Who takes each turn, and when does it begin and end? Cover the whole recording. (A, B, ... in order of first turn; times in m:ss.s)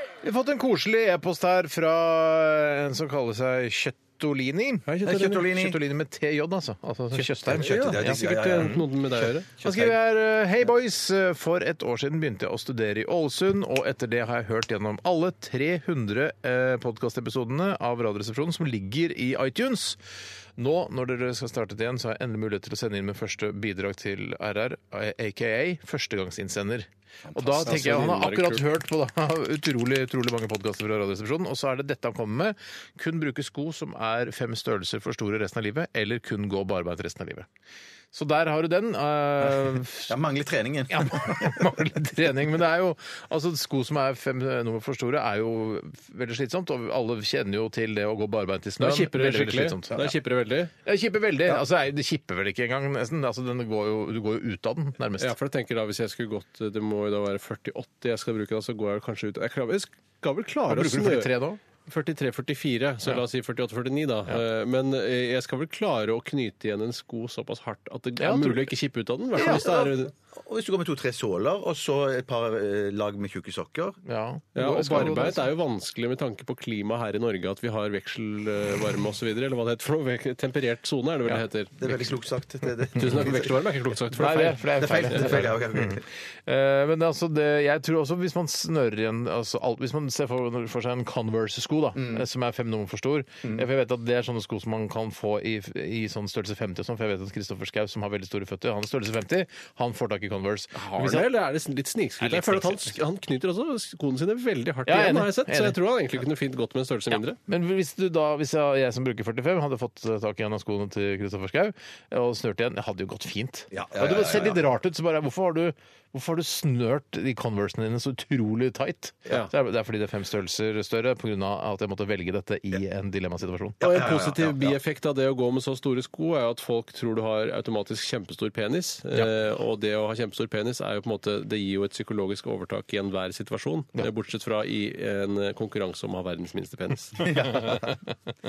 0:00.2-0:08.8 A
0:04.9-0:05.4 B
0:05.0-0:05.8 C
0:07.1-0:10.0 C
0:07.5-0:09.4 B
0:09.6-0:20.0 A
0:20.6-0:37.5 A
0:27.3-0:28.0 C
0:27.7-0:28.7 B
0:38.1-0:40.2 A
0:40.1-0:41.8 C
0:40.9-0:50.1 A
0:48.8-0:50.7 B
0:50.8-0:55.3 A
0:55.2-1:01.3 B
1:00.7-1:01.6 A
1:01.8-1:10.1 B
1:08.2-1:08.7 A
1:09.3-1:09.9 A
1:09.4-1:14.0 C
1:14.0-1:15.5 A
1:14.6-1:22.1 B
1:21.3-1:21.9 A
1:21.8-1:23.6 C
1:22.9-1:25.4 B
1:23.0-1:23.3 A
1:24.1-1:41.3 A
1:24.7-1:26.0 C
1:32.0-1:32.2 C
1:40.8-1:47.4 B
1:42.2-1:43.0 A
1:44.9-1:45.8 A
1:47.1-2:03.8 A
1:53.7-1:54.6 C
2:03.8-2:04.8 C
2:03.8-2:17.3 B
2:17.2-2:18.0 C
2:17.6-2:17.9 A